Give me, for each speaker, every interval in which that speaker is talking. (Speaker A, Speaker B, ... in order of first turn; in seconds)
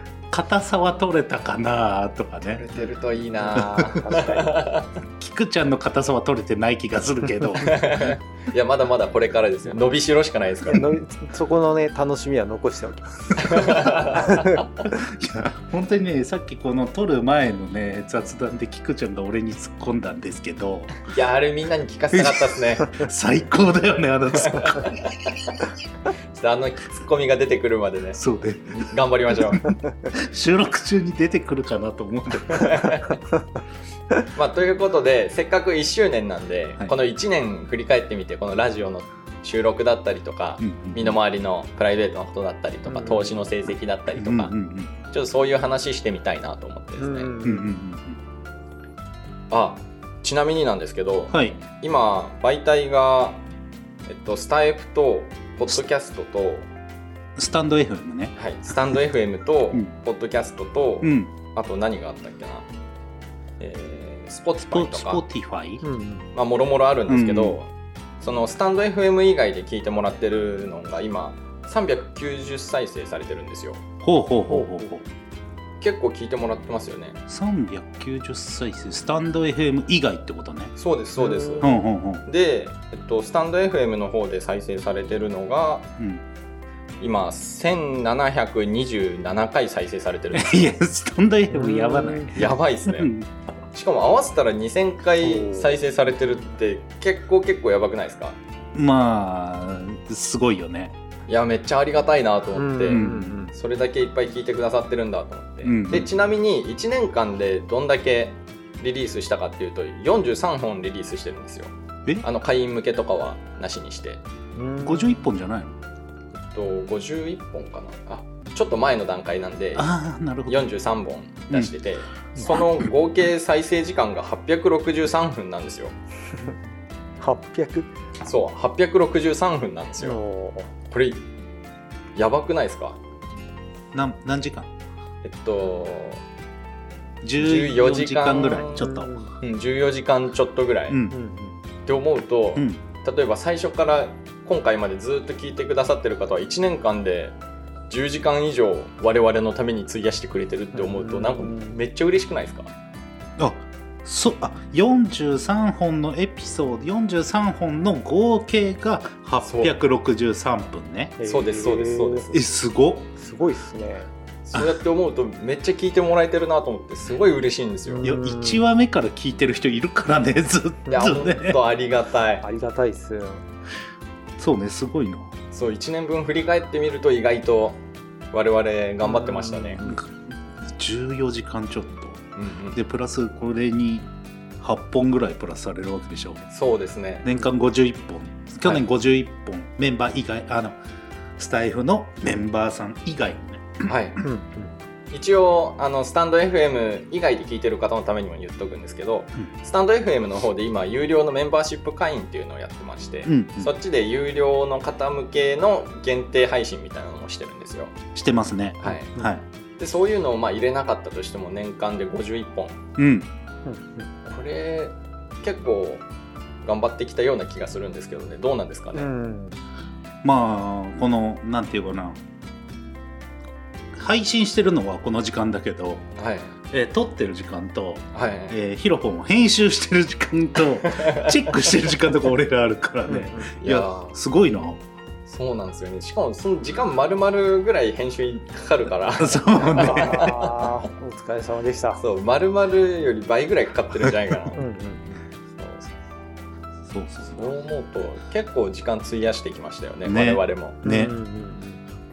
Speaker A: 0.3-2.6, 3.6-3.9, 5.2-8.1, 14.9-21.0, 22.1-25.0, 28.2-33.2, 40.6-41.2, 44.2-44.9, 47.4-48.2, 51.3-51.6, 57.4-58.4, 61.0-61.3, 64.7-65.8, 67.1-67.6, 74.0-75.1, 77.3-80.7, 81.6-82.3, 86.0-86.2, 90.3-93.3, 98.7-101.0, 102.9-103.4, 105.6-106.1, 114.8-115.8, 119.8-120.7, 122.4-122.9, 133.9-134.7, 137.2-139.1, 140.9-141.2, 142.6-142.8, 153.4-161.2, 162.3-163.1, 168.0-171.6, 174.4-175.3, 179.8-180.1, 180.6-182.2, 182.8-184.1, 184.6-186.5, 187.2-190.8, 191.4-193.9, 203.2-203.7, 208.2-209.4, 213.0-213.3, 220.2-222.2, 223.9-226.1, 226.7-234.8, 239.2-240.3, 246.9-247.5, 250.0-251.1
Speaker B: 2.5-4.9, 7.6-10.9, 13.4-14.5, 21.1-23.0, 24.3-25.0, 26.3-29.8, 32.5-33.0, 34.4-44.5, 45.1-47.3, 49.5-53.4, 54.1-56.7, 58.4-62.7, 63.6-65.2, 66.3-67.7, 68.2-73.8, 75.8-77.2, 80.8-81.7, 82.3-85.9, 87.0-90.7, 92.3-93.1, 93.7-98.4, 101.3-111.7, 112.2-114.2, 116.4-119.9, 120.5-126.0, 128.2-130.2, 130.9-131.2, 132.2-133.0, 135.2-136.2, 137.4-138.9, 139.4-141.0, 141.9-147.4, 147.9-152.7, 159.4-159.7, 161.3-162.5, 164.4-168.0, 170.9-172.4, 175.5-177.8, 178.3-179.9, 182.4-182.8, 186.5-187.3, 193.9-194.2, 195.1-207.9, 208.8-209.1, 209.8-212.8, 214.2-216.0, 216.6-219.1, 226.2-226.6, 228.1-228.6, 230.8-231.4, 233.6-234.2, 235.3-240.7, 242.0-244.6, 245.5-245.9, 247.3-250.8
Speaker C: 3.6-4.5, 10.7-14.6, 42.9-43.4, 47.0-47.7, 65.8-66.3, 74.5-74.9, 81.2-81.7, 91.5-92.3, 95.2-95.8, 102.5-103.5, 114.6-115.3, 127.2-127.9, 130.0-130.7, 138.6-139.3, 141.1-141.6, 150.7-151.7, 161.2-162.3, 163.2-164.1, 167.9-168.6, 172.4-173.5, 179.0-179.9, 194.2-194.7, 208.9-209.3, 213.7-214.1, 218.9-219.6, 233.1-233.5, 239.6-242.0, 244.5-245.2, 250.8-251.8